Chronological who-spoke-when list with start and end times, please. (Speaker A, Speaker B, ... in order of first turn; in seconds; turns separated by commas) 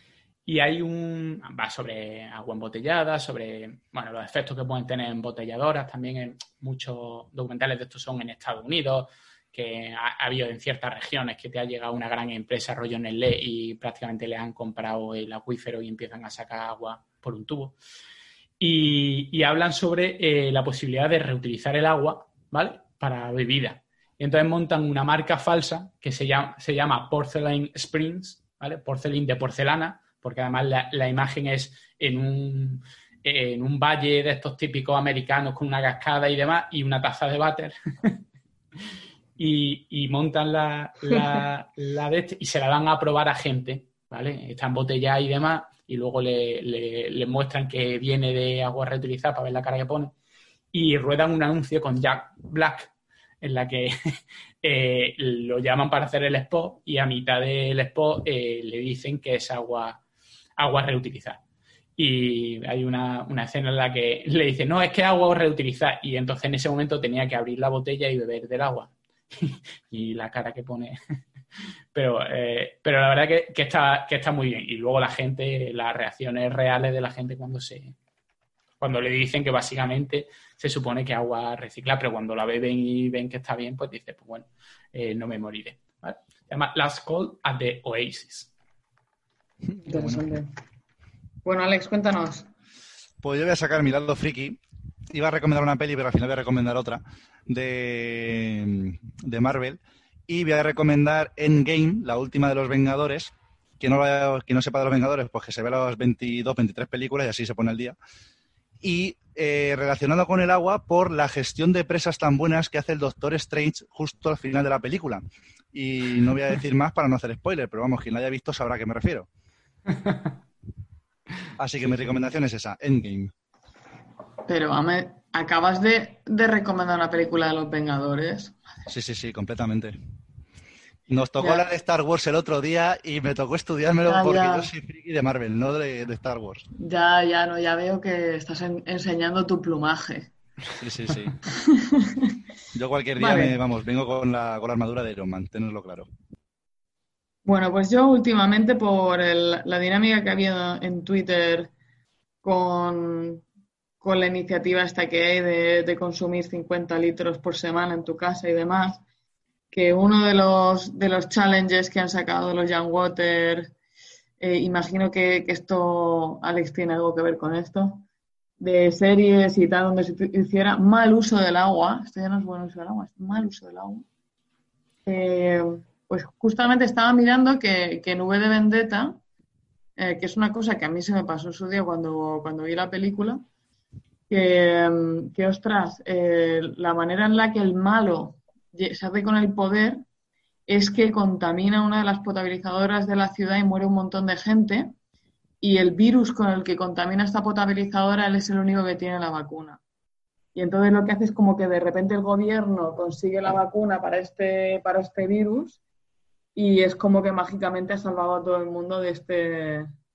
Speaker A: 0.5-17.7, Speaker A: 18.6-38.2, Speaker A: 39.4-50.1, Speaker A: 50.7-60.0, Speaker A: 60.6-61.4, Speaker A: 62.0-71.0, Speaker A: 71.9-78.0, Speaker A: 78.8-88.5, Speaker B: 89.7-90.2, Speaker C: 89.8-90.5, Speaker C: 91.5-92.5, Speaker B: 93.2-108.0, Speaker B: 108.8-119.3, Speaker B: 121.6-123.3, Speaker C: 124.5-128.6, Speaker B: 128.9-129.9, Speaker B: 131.1-136.7, Speaker C: 131.4-131.7, Speaker C: 134.1-134.7, Speaker C: 136.8-140.3, Speaker B: 140.8-141.3, Speaker C: 141.6-142.4, Speaker B: 142.7-146.1, Speaker C: 143.2-143.6, Speaker C: 147.4-151.7, Speaker C: 152.4-153.4, Speaker C: 154.0-159.0, Speaker C: 159.7-163.7, Speaker C: 164.4-168.1, Speaker C: 168.6-174.1, Speaker C: 175.1-179.2, Speaker C: 180.0-183.5, Speaker C: 184.3-190.0, Speaker C: 190.7-194.9, Speaker C: 195.6-199.8, Speaker C: 200.6-205.8, Speaker C: 206.6-209.9